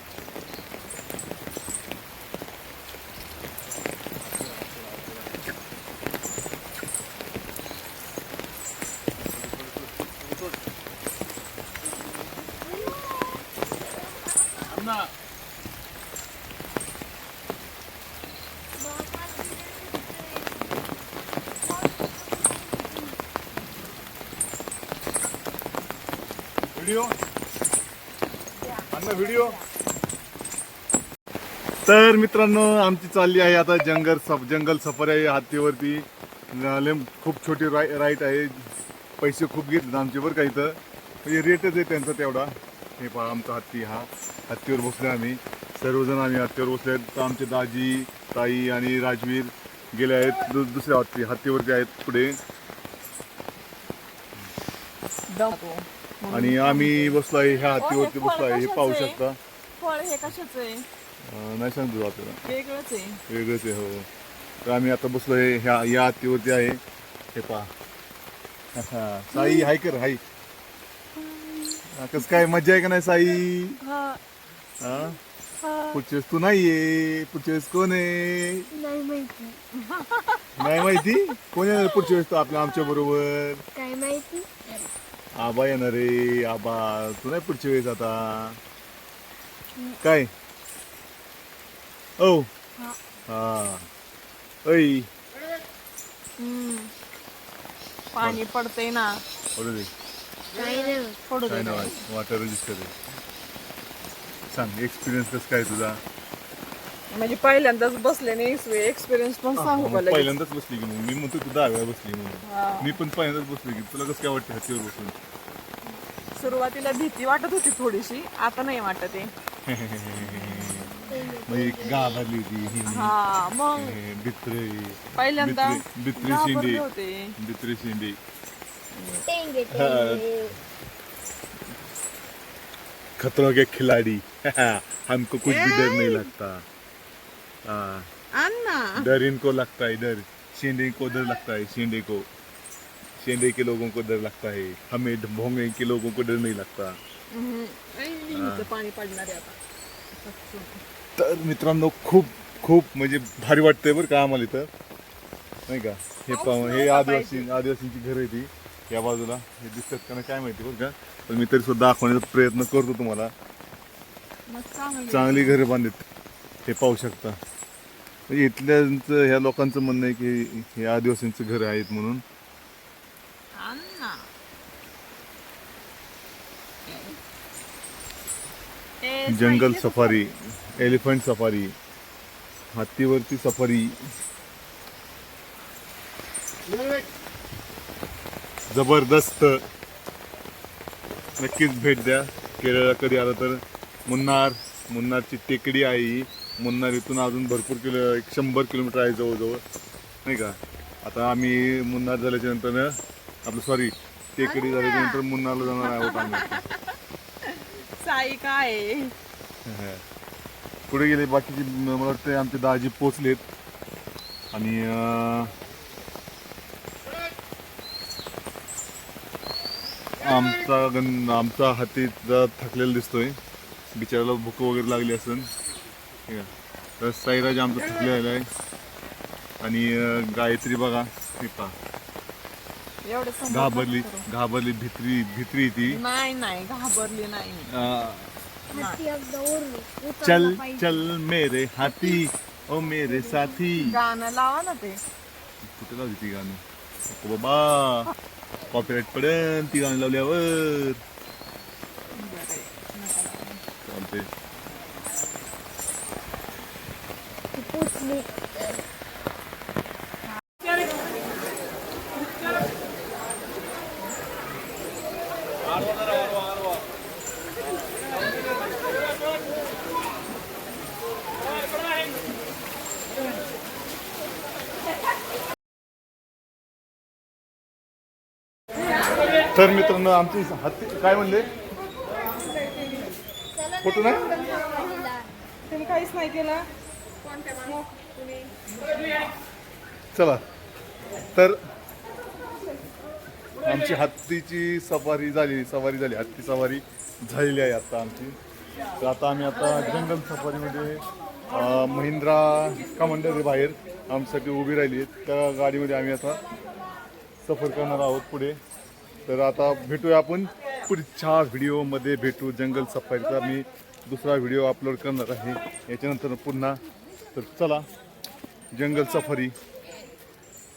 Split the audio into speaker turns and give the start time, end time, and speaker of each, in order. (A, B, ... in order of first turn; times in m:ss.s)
0:09.2-0:10.4 A
0:12.6-0:13.4 B
0:14.7-0:15.1 A
0:18.8-0:20.6 B
0:21.7-0:23.2 B
0:26.7-0:27.1 A
0:28.7-0:29.6 C
0:28.9-0:29.6 A
0:31.8-0:38.7 A
0:39.2-0:52.4 A
0:55.3-0:57.2 C
0:56.3-0:59.4 A
0:57.7-0:59.2 C
0:59.8-1:00.8 C
1:01.2-1:02.4 A
1:02.4-1:03.2 C
1:03.3-1:04.1 A
1:04.6-1:06.8 A
1:07.3-1:07.7 A
1:08.8-1:10.2 A
1:09.4-1:09.6 B
1:11.2-1:12.4 C
1:11.9-1:13.8 A
1:13.8-1:14.2 C
1:14.8-1:15.2 A
1:15.6-1:16.0 C
1:15.9-1:18.7 A
1:18.7-1:19.6 B
1:19.8-1:21.1 C
1:20.6-1:23.6 A
1:21.7-1:22.1 C
1:23.7-1:24.9 B
1:25.3-1:28.6 A
1:30.0-1:30.3 A
1:32.2-1:32.5 A
1:33.3-1:33.9 A
1:34.6-1:35.1 A
1:36.4-1:36.9 C
1:38.1-1:39.2 C
1:39.6-1:39.9 A
1:40.5-1:41.2 B
1:41.3-1:42.0 C
1:41.4-1:42.9 A
1:44.5-1:46.0 A
1:47.1-1:50.3 C
1:49.6-1:55.1 A
1:52.4-1:53.0 C
1:56.3-1:59.3 C
1:59.6-2:00.9 A
2:01.1-2:02.3 B
2:01.4-2:03.1 A
2:02.9-2:04.0 C
2:03.7-2:06.8 A
2:05.1-2:07.3 C
2:07.4-2:08.2 A
2:08.9-2:09.2 C
2:09.2-2:10.6 B
2:09.7-2:10.2 A
2:13.2-2:16.6 A
2:15.4-2:16.3 C
2:17.6-2:18.1 A
2:18.3-2:19.1 C
2:19.0-2:22.3 A
2:21.1-2:21.4 C
2:23.2-2:27.0 A
2:27.3-2:29.6 C
2:28.3-2:28.7 A
2:30.2-2:30.8 C
2:31.2-2:34.7 A
2:35.7-2:43.3 A
2:36.3-2:37.6 C
2:44.5-2:45.6 C
2:45.1-2:46.0 A
2:46.6-2:47.4 A
2:48.3-2:52.2 A
2:53.5-2:54.2 C
2:56.9-2:57.2 C
2:59.0-3:01.0 C
2:59.3-3:01.7 A
3:02.7-3:04.0 A
3:08.7-3:09.6 A
3:11.4-3:19.6 A
3:20.2-3:22.9 A
3:23.4-3:26.6 A
3:24.4-3:26.9 C
3:27.4-3:29.1 C
3:29.6-3:30.0 A
3:30.9-3:33.4 A
3:34.5-3:35.5 A
3:40.2-3:43.4 A
3:43.9-3:45.5 A
3:47.0-3:48.5 A
3:49.6-3:51.7 A
3:53.0-3:54.2 C
3:53.5-3:56.0 A
3:55.8-3:57.7 C
3:57.7-3:58.3 A
3:58.7-4:01.1 B
3:58.7-3:59.0 C
4:00.2-4:04.0 A
4:01.8-4:02.2 C
4:03.0-4:03.8 B
4:03.8-4:05.0 C
4:05.6-4:08.1 A
4:08.7-4:11.0 A
4:12.1-4:13.6 C
4:13.8-4:14.3 A
4:17.5-4:18.3 B
4:39.5-4:41.5 A
4:42.8-4:43.0 C
4:43.8-4:44.4 A
4:44.5-4:45.2 B
4:45.7-4:46.6 C
4:47.2-4:49.2 C
4:50.1-4:50.4 A
4:51.3-4:51.6 A
4:53.6-4:58.4 A
4:59.0-5:06.4 A
5:07.4-5:08.6 A
5:09.2-5:16.8 A
5:17.3-5:17.8 A
5:18.7-5:19.5 A